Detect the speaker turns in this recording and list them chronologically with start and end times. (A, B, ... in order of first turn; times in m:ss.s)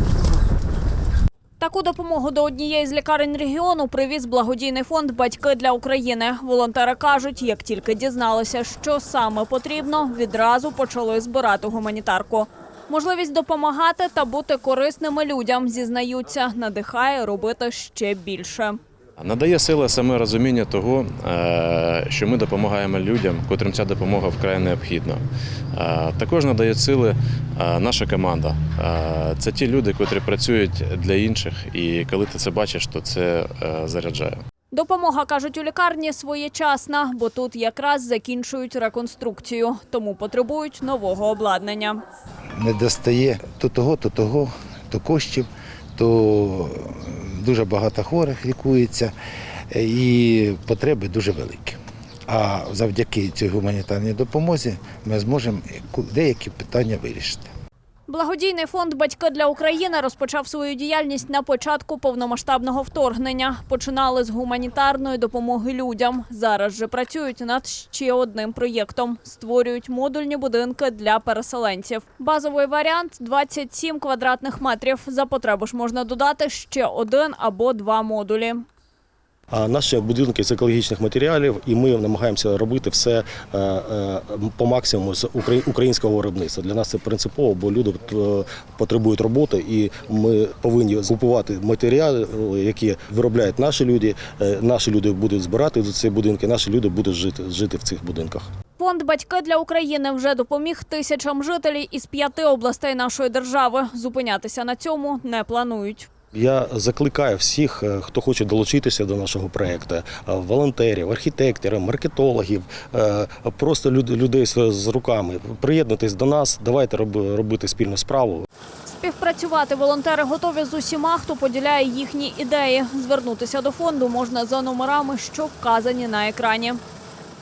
0:01.6-0:18.8 A
0:19.2-0:25.2 B
0:25.7-0:34.4 B
0:34.7-0:42.0 A
0:42.6-0:49.1 C
0:49.7-0:57.5 C
0:58.1-1:18.6 A
1:19.5-1:38.5 D
1:38.8-1:46.1 A
1:46.3-1:58.5 D
1:58.9-2:06.8 A